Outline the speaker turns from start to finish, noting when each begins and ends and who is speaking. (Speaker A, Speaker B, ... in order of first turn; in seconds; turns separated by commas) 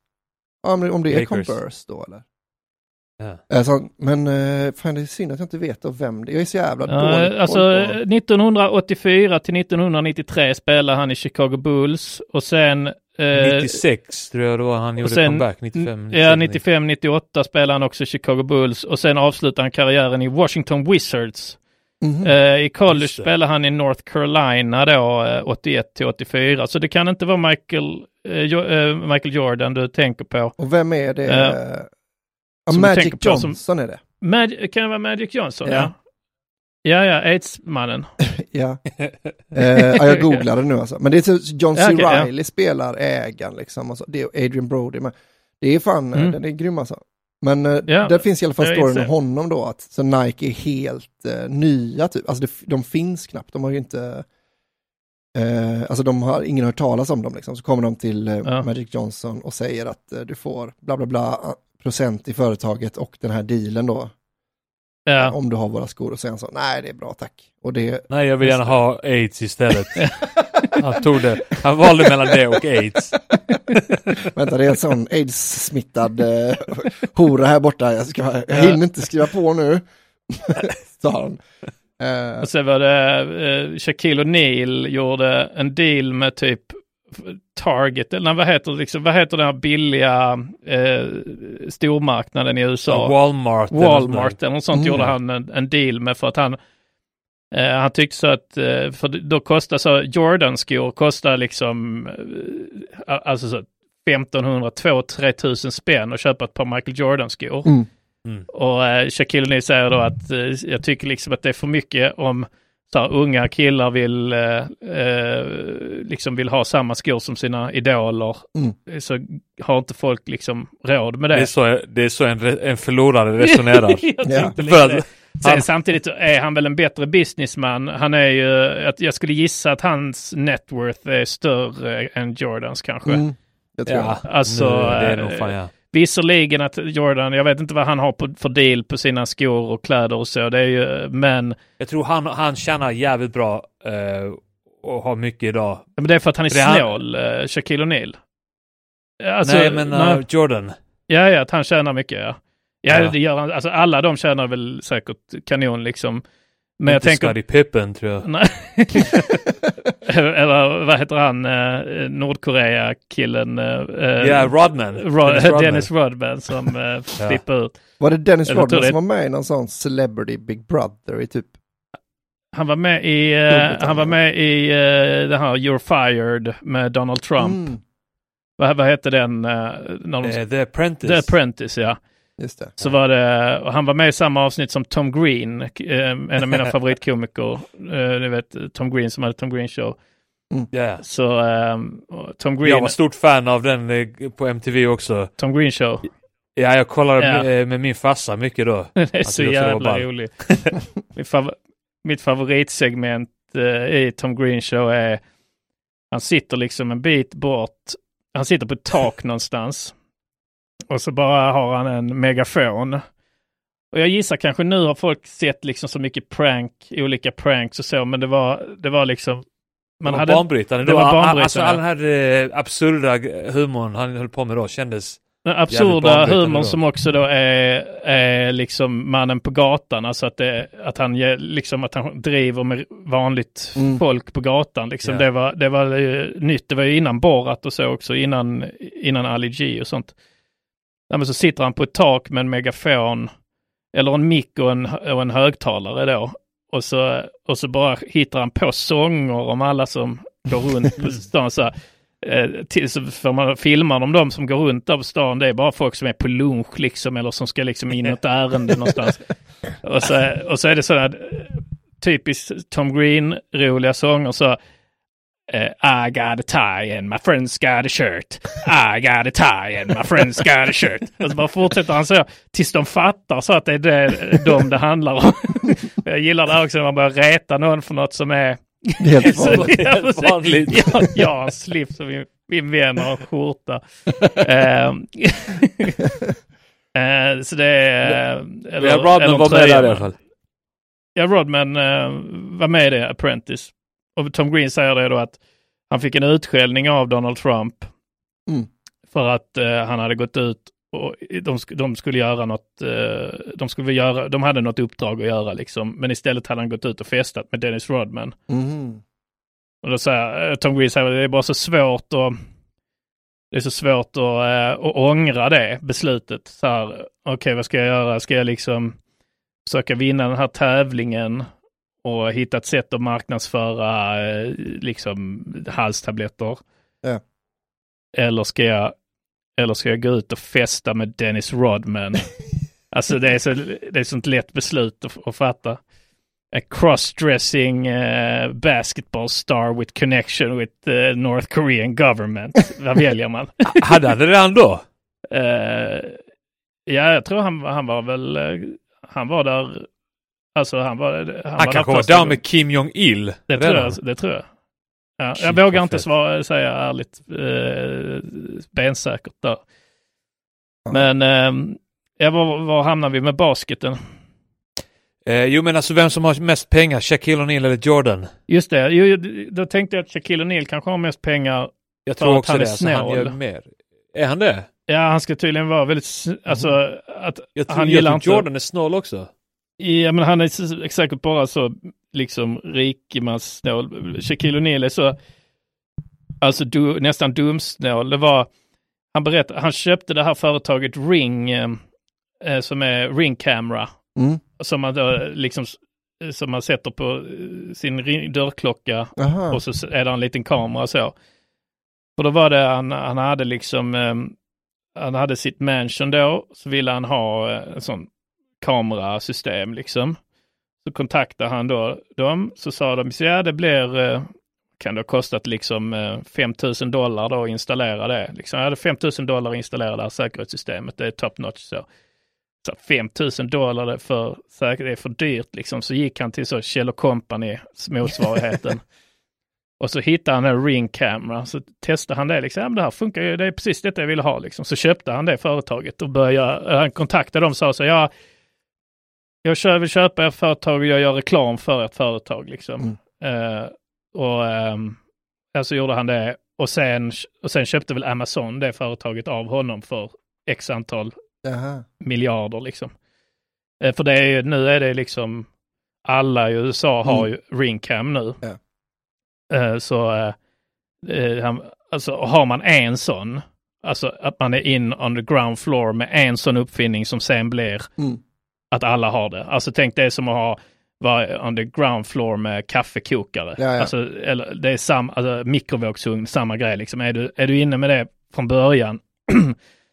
Speaker A: 0.6-2.2, Speaker B: 1.1-1.5, Speaker A: 3.5-8.0, Speaker C: 6.9-13.8, Speaker B: 13.3-16.6, Speaker C: 15.0-21.6, Speaker A: 22.0-22.3, Speaker C: 22.2-30.6, Speaker B: 22.9-23.3, Speaker A: 30.6-31.9, Speaker C: 31.3-31.6, Speaker A: 32.7-34.0, Speaker C: 32.7-33.6, Speaker C: 34.2-35.9, Speaker A: 35.6-35.9, Speaker C: 36.9-38.1, Speaker A: 38.4-38.8, Speaker A: 39.5-54.2, Speaker C: 39.8-40.4, Speaker C: 41.8-42.3, Speaker C: 47.9-49.1, Speaker A: 55.4-64.1, Speaker C: 65.1-65.3, Speaker A: 65.2-68.8, Speaker B: 68.1-73.2, Speaker A: 74.3-81.4, Speaker C: 78.5-78.8, Speaker A: 82.0-82.5, Speaker C: 82.4-93.1, Speaker B: 92.9-94.4, Speaker C: 93.7-96.6, Speaker A: 94.7-95.1, Speaker C: 97.5-107.7, Speaker C: 108.5-121.5, Speaker B: 121.3-125.7, Speaker C: 123.4-133.2, Speaker A: 124.2-124.5, Speaker A: 133.1-134.2, Speaker B: 133.9-135.7, Speaker C: 134.2-141.6, Speaker B: 141.8-145.9, Speaker C: 146.0-148.2, Speaker B: 146.5-147.0, Speaker C: 149.2-150.2, Speaker B: 149.4-150.7, Speaker C: 151.1-156.2, Speaker B: 152.9-153.1, Speaker C: 156.8-157.4, Speaker B: 156.9-158.2, Speaker C: 158.2-159.2, Speaker C: 160.1-167.8, Speaker B: 164.2-165.9, Speaker A: 168.0-171.5, Speaker C: 168.5-169.0, Speaker C: 172.5-177.7, Speaker A: 173.5-174.2, Speaker A: 177.4-177.8, Speaker C: 178.6-180.4, Speaker B: 180.2-181.3, Speaker C: 181.0-182.0, Speaker A: 182.4-182.7, Speaker C: 182.8-189.9, Speaker B: 190.7-191.0, Speaker C: 191.0-192.9, Speaker B: 192.6-195.3, Speaker C: 195.4-196.1, Speaker B: 196.6-200.7, Speaker C: 199.0-200.3, Speaker C: 201.1-205.2, Speaker C: 206.1-209.9, Speaker C: 210.9-213.0, Speaker C: 213.9-219.4, Speaker C: 220.0-221.8, Speaker B: 220.1-226.8, Speaker C: 225.4-240.1, Speaker C: 241.1-243.3, Speaker C: 243.9-259.2, Speaker C: 259.8-264.6, Speaker C: 265.5-283.8, Speaker A: 279.0-279.7, Speaker B: 279.3-281.0, Speaker C: 284.4-286.0, Speaker C: 286.9-290.1, Speaker B: 288.8-290.1, Speaker C: 291.1-295.4, Speaker C: 295.9-297.9, Speaker C: 299.1-308.4, Speaker A: 308.5-309.0, Speaker C: 309.8-312.4, Speaker C: 313.5-318.9, Speaker C: 319.6-321.5, Speaker C: 322.0-326.6, Speaker C: 328.1-328.9, Speaker C: 329.6-332.2, Speaker C: 332.9-335.8, Speaker C: 336.5-343.8, Speaker B: 343.7-344.8, Speaker C: 345.3-346.2, Speaker C: 346.9-349.9, Speaker C: 350.6-352.4, Speaker B: 351.6-354.0, Speaker C: 353.5-354.4, Speaker C: 355.2-359.6, Speaker B: 355.4-356.0, Speaker C: 360.9-364.0, Speaker B: 365.2-368.3, Speaker C: 368.5-373.4, Speaker B: 372.1-374.7, Speaker C: 374.9-378.4, Speaker B: 377.6-379.3, Speaker C: 379.8-385.2, Speaker C: 386.4-388.5, Speaker C: 389.1-391.8, Speaker C: 392.4-393.9, Speaker C: 394.6-401.1, Speaker A: 399.2-399.6, Speaker C: 402.2-404.3, Speaker C: 405.0-408.1, Speaker C: 408.6-410.2, Speaker C: 410.8-421.9, Speaker C: 422.6-428.8, Speaker C: 429.8-438.1, Speaker C: 439.4-445.0, Speaker C: 445.5-451.1, Speaker A: 451.4-451.8, Speaker C: 452.0-452.9, Speaker C: 453.8-455.5, Speaker C: 456.1-458.4, Speaker C: 459.5-460.3, Speaker C: 461.0-467.9, Speaker C: 468.7-479.5, Speaker A: 473.6-473.9